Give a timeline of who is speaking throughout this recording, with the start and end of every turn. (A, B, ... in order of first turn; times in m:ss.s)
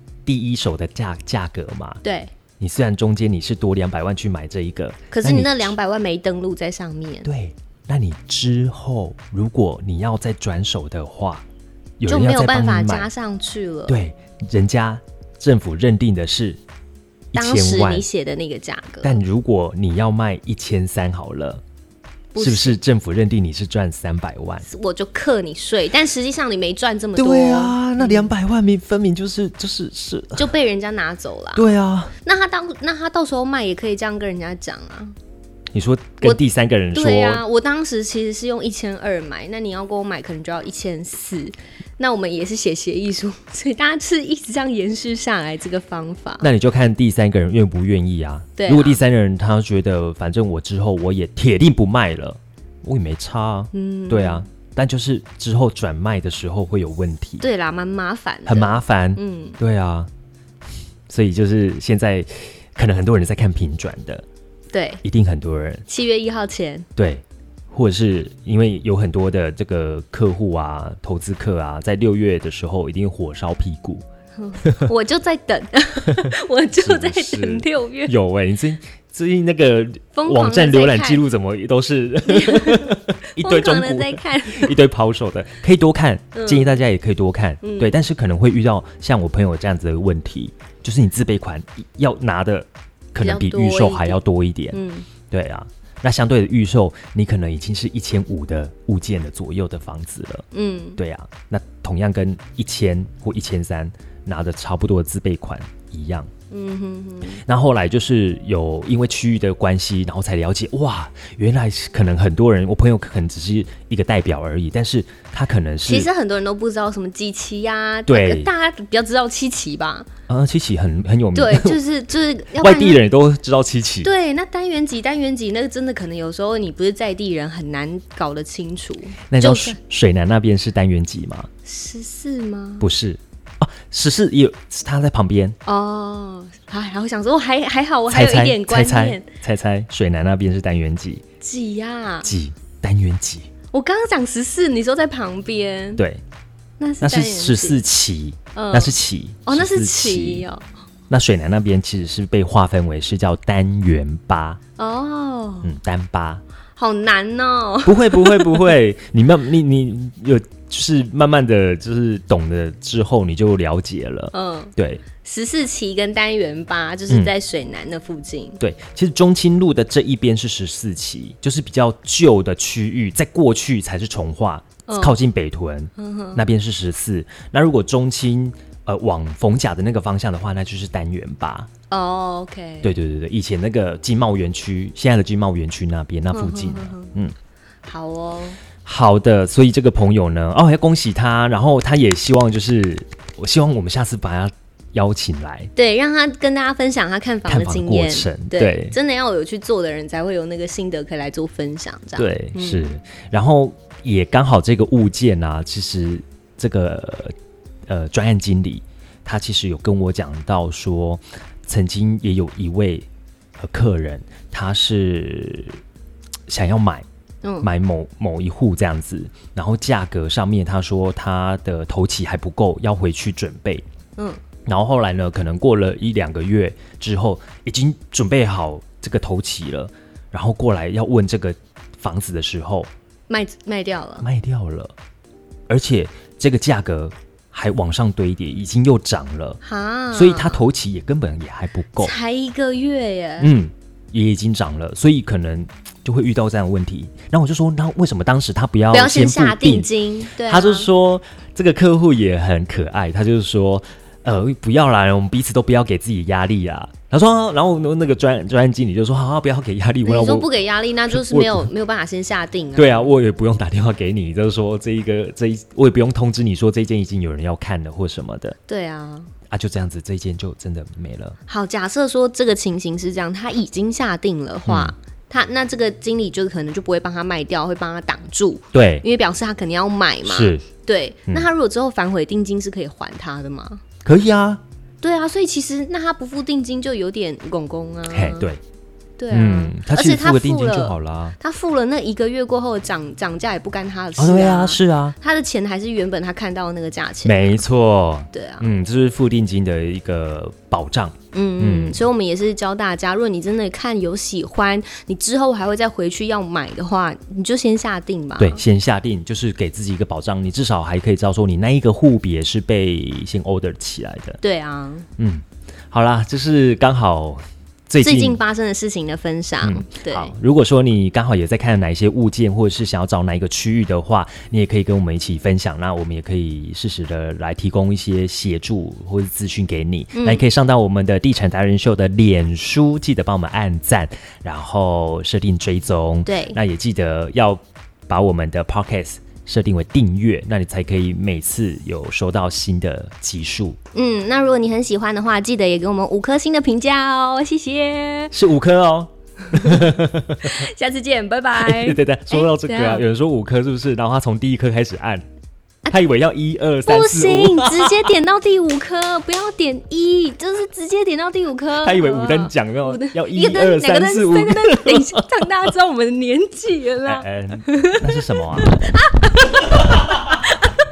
0:00.3-0:02.0 A
0:02.0-0:02.3 B
0:02.6-0:05.8 A
0:05.1-0:07.3 B
0:07.2-0:11.4 A
0:12.0-0:13.1 A
0:12.1-0:14.0 B
0:13.9-0:16.6 A
0:17.3-0:18.1 A
0:17.4-0:19.2 B
0:19.0-0:21.6 A
0:22.3-0:22.8 B
0:22.4-0:24.7 A
0:24.6-0:28.3 B
0:27.2-0:30.5 A
0:30.4-0:31.6 B
0:31.6-0:32.1 A
0:32.2-0:35.2 B
0:35.7-0:37.4 A
0:36.9-0:46.5 B
0:46.4-0:57.5 A
0:48.6-0:49.0 B
0:53.7-0:54.5 B
0:57.4-0:59.6 B
0:58.5-1:00.1 A
1:01.1-1:04.2 A
1:04.7-1:05.0 B
1:05.0-1:05.8 A
1:05.9-1:06.9 B
1:07.0-1:14.0 A
1:14.4-1:18.1 B
1:14.6-1:14.9 A
1:16.8-1:34.8 A
1:20.1-1:21.2 B
1:22.3-1:24.8 B
1:26.4-1:26.8 B
1:27.6-1:28.0 B
1:33.2-1:34.2 B
1:34.7-1:35.1 B
1:35.3-1:40.4 A
1:40.5-1:41.0 B
1:41.0-1:46.3 A
1:46.5-1:47.4 B
1:47.5-1:56.1 A
1:55.9-2:00.1 B
1:58.1-1:58.5 A
2:00.3-2:01.8 A
2:01.3-2:03.0 B
2:02.6-2:04.1 A
2:04.0-2:09.8 B
2:09.3-2:11.5 A
2:11.6-2:12.9 B
2:12.8-2:15.6 A
2:15.6-2:19.3 B
2:18.1-2:21.2 A
2:21.4-2:22.3 B
2:22.2-2:23.5 A
2:23.7-2:26.0 B
2:26.0-2:26.2 A
2:26.8-2:27.8 B
2:27.0-2:30.5 A
2:28.6-2:29.0 B
2:29.5-2:30.7 B
2:31.1-2:34.6 A
2:34.8-2:35.7 B
2:35.6-2:36.4 A
2:36.8-2:38.7 B
2:37.8-2:45.0 A
2:44.3-2:48.6 B
2:48.6-3:01.7 A
2:54.9-2:55.2 B
2:56.0-2:56.4 B
3:01.9-3:02.9 B
3:02.8-3:07.3 A
3:06.3-3:07.1 B
3:07.9-3:08.6 B
3:08.8-3:15.7 A
3:15.8-3:22.9 B
3:17.5-3:19.0 A
3:22.2-3:27.4 A
3:27.9-3:33.1 A
3:33.6-3:35.8 A
3:36.5-3:37.0 A
3:37.4-3:37.7 B
3:37.6-3:43.8 A
3:44.7-3:52.9 A
3:53.3-3:54.3 B
3:54.2-3:55.0 A
3:55.7-3:59.6 A
3:59.6-4:00.6 B
4:00.1-4:02.1 A
4:02.0-4:03.5 B
4:03.4-4:20.5 A
4:08.9-4:10.9 B
4:20.0-4:23.1 B
4:21.1-4:21.7 A
4:22.8-4:28.6 A
4:28.7-4:29.3 B
4:29.5-4:31.4 A
4:31.5-4:43.8 B
4:34.7-4:35.0 A
4:38.7-4:39.0 A
4:40.2-4:40.6 A
4:44.0-4:44.6 A
4:45.0-4:48.5 B
4:48.1-4:48.6 A
4:49.2-4:57.6 B
4:49.3-4:51.4 A
4:54.2-4:55.2 A
4:57.2-5:02.0 A
4:58.3-4:58.7 B
5:01.3-5:08.6 B
5:08.4-5:14.4 A
5:14.4-5:15.1 B
5:15.2-5:18.4 A
5:18.0-5:20.3 B
5:19.6-5:43.8 A
5:30.2-5:30.4 B
5:36.3-5:36.6 B
5:43.9-5:48.4 B
5:48.3-5:50.5 A
5:49.6-5:49.9 B
5:50.4-5:53.1 B
5:51.6-5:55.2 A
5:55.9-5:58.1 A
5:56.8-6:10.7 B
6:01.8-6:05.2 A
6:07.0-6:09.0 A